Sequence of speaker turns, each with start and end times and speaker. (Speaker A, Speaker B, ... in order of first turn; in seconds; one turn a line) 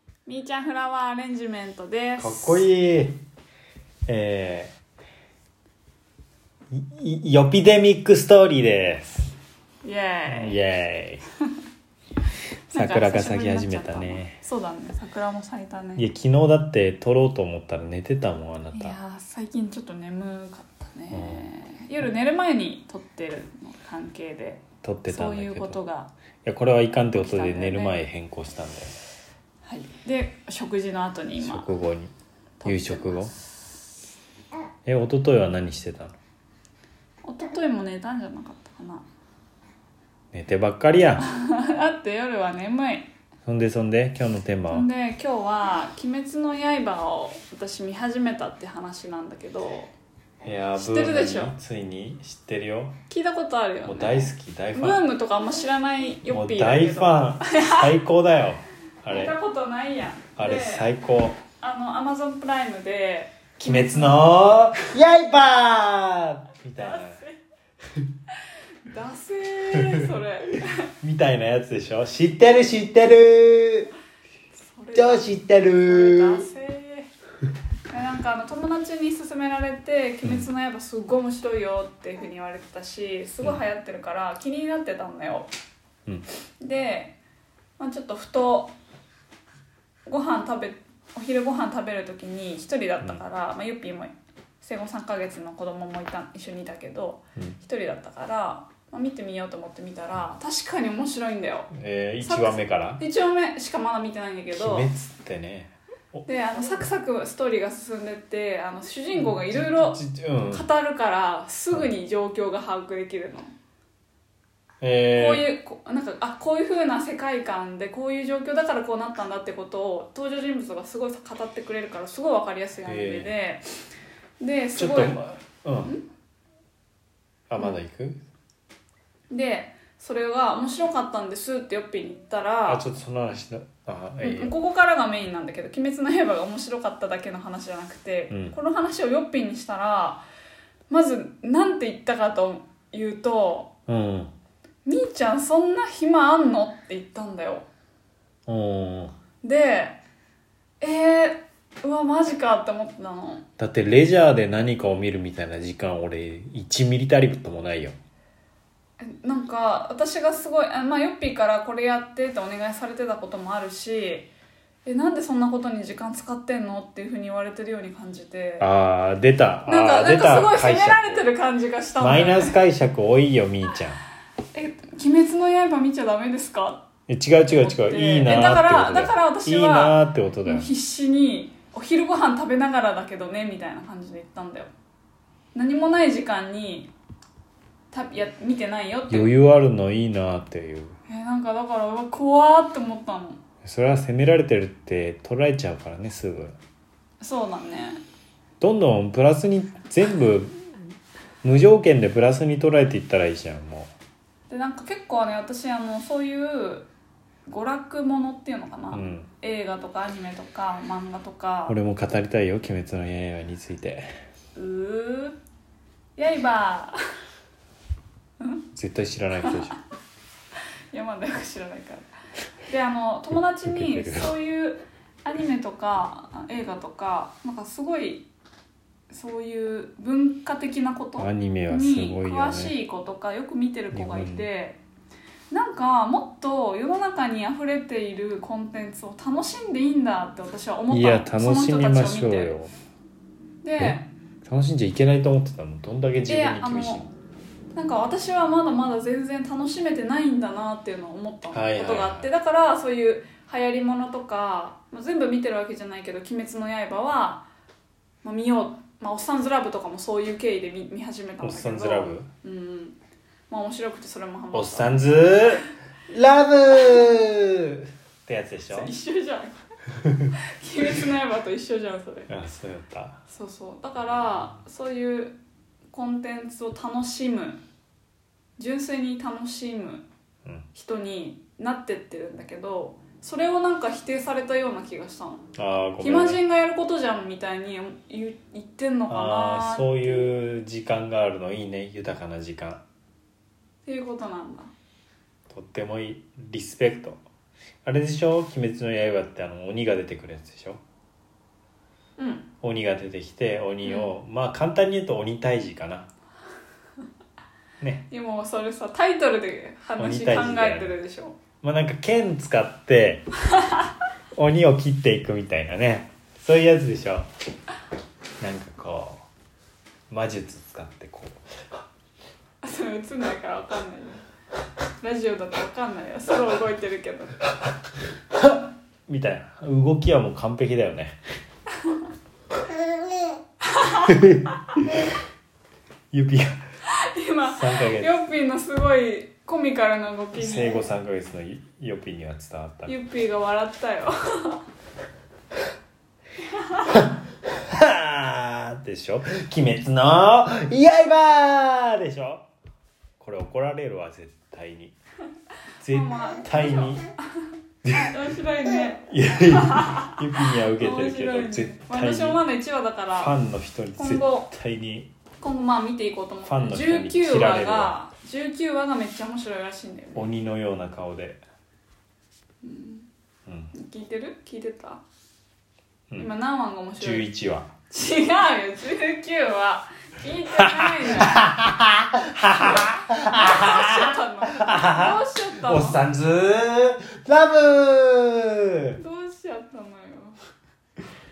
Speaker A: 0.2-2.6
Speaker B: 2.2-3.2
Speaker B: 4.1-4.7
Speaker B: 6.7-9.3
Speaker A: 9.8-10.6
Speaker B: 10.3-11.2
Speaker A: 12.7-16.1
Speaker B: 12.7-14.4
Speaker B: 16.0-19.0
Speaker A: 18.7-26.1
Speaker B: 21.1-21.4
Speaker B: 24.8-25.8
Speaker B: 26.4-29.0
Speaker A: 27.1-28.0
Speaker A: 29.6-31.7
Speaker B: 31.4-32.1
Speaker A: 32.6-33.4
Speaker B: 32.6-33.3
Speaker B: 34.9-36.1
Speaker A: 37.2-39.0
Speaker B: 40.3-41.2
Speaker A: 41.2-43.1
Speaker B: 43.4-44.9
Speaker A: 44.7-49.9
Speaker B: 50.4-53.0
Speaker A: 50.8-51.5
Speaker A: 53.1-57.9
Speaker B: 53.8-55.0
Speaker B: 56.3-59.3
Speaker A: 59.1-60.9
Speaker B: 60.4-61.4
Speaker A: 61.6-64.2
Speaker B: 63.6-67.2
Speaker A: 66.8-67.4
Speaker A: 68.8-70.8
Speaker B: 69.7-70.1
Speaker B: 71.0-73.9
Speaker A: 74.5-77.1
Speaker B: 74.9-76.4
Speaker A: 77.9-85.5
Speaker B: 80.2-80.5
Speaker A: 86.6-87.2
Speaker A: 87.8-88.7
Speaker A: 90.1-101.7
Speaker B: 101.7-103.0
Speaker A: 102.2-104.9
Speaker B: 104.5-106.2
Speaker A: 106.2-113.5
Speaker B: 109.2-110.7
Speaker B: 114.8-115.5
Speaker A: 115.1-123.6
Speaker B: 122.8-123.3
Speaker A: 124.4-125.2
Speaker B: 124.8-125.9
Speaker B: 127.5-128.2
Speaker A: 129.3-132.8
Speaker B: 132.7-134.6
Speaker A: 134.2-140.2
Speaker B: 138.3-138.5
Speaker A: 140.9-143.7
Speaker B: 143.9-144.3
Speaker A: 144.8-147.7
Speaker B: 148.5-149.1
Speaker A: 149.4-150.0
Speaker A: 150.8-153.4
Speaker B: 153.6-157.9
Speaker A: 159.0-164.3
Speaker A: 164.8-168.7
Speaker B: 168.6-171.3
Speaker A: 169.7-172.5
Speaker B: 172.0-174.0
Speaker A: 174.5-176.8
Speaker B: 177.1-180.7
Speaker A: 177.5-184.7
Speaker A: 185.5-186.9
Speaker A: 187.9-189.3
Speaker B: 189.1-190.9
Speaker A: 191.1-193.4
Speaker B: 193.6-196.6
Speaker A: 197.2-198.0
Speaker B: 198.6-200.7
Speaker B: 201.4-203.9
Speaker A: 204.5-206.9
Speaker A: 207.5-211.8
Speaker B: 208.9-209.3
Speaker B: 211.7-214.1
Speaker A: 214.5-215.3
Speaker A: 216.2-216.9
Speaker A: 218.4-218.6
Speaker B: 218.7-219.7
Speaker A: 219.4-219.8
Speaker A: 220.9-222.1
Speaker A: 222.7-228.3
Speaker B: 223.6-224.4
Speaker A: 229.1-234.8
Speaker B: 231.2-232.8
Speaker B: 233.9-234.5
Speaker A: 235.5-242.6
Speaker B: 240.9-242.7
Speaker A: 243.6-244.1
Speaker B: 243.8-247.1
Speaker A: 246.3-247.0
Speaker A: 247.7-257.4
Speaker B: 251.5-252.3
Speaker A: 258.2-263.0
Speaker B: 261.4-262.3
Speaker A: 263.5-265.6
Speaker B: 264.5-268.9
Speaker A: 266.8-267.1
Speaker A: 268.7-269.5
Speaker A: 270.6-272.3
Speaker B: 272.3-273.2
Speaker A: 273.3-275.4
Speaker A: 275.9-277.6
Speaker A: 278.6-280.0
Speaker A: 280.7-285.4
Speaker B: 285.5-286.4
Speaker A: 286.0-290.3
Speaker B: 289.1-292.8
Speaker A: 293.8-294.7
Speaker B: 295.5-297.2
Speaker B: 297.8-300.8
Speaker A: 302.2-302.5
Speaker B: 302.6-306.1
Speaker A: 303.8-304.1
Speaker B: 307.8-308.1
Speaker A: 308.1-311.4
Speaker B: 310.0-311.0
Speaker B: 311.6-313.3
Speaker B: 314.4-317.3
Speaker B: 318.4-319.2
Speaker B: 320.1-321.4
Speaker A: 322.6-324.2
Speaker A: 325.0-327.4
Speaker B: 329.1-331.1
Speaker A: 333.7-334.1
Speaker B: 334.0-334.9
Speaker B: 336.1-336.6
Speaker A: 337.0-340.8
Speaker B: 337.5-338.1
Speaker B: 340.4-342.9
Speaker A: 342.9-344.6
Speaker B: 346.9-352.5
Speaker B: 353.2-354.9
Speaker B: 355.8-357.0
Speaker A: 355.9-363.3
Speaker B: 357.8-358.1
Speaker B: 359.1-362.4
Speaker B: 363.2-365.1
Speaker A: 364.0-364.5
Speaker A: 365.4-370.3
Speaker B: 366.4-367.9
Speaker B: 370.1-371.4
Speaker A: 372.6-373.1
Speaker B: 373.5-373.7
Speaker A: 373.7-375.0
Speaker A: 376.2-377.2
Speaker B: 377.0-377.7
Speaker A: 377.9-381.5
Speaker B: 380.6-389.0
Speaker A: 382.5-386.0
Speaker A: 389.0-390.4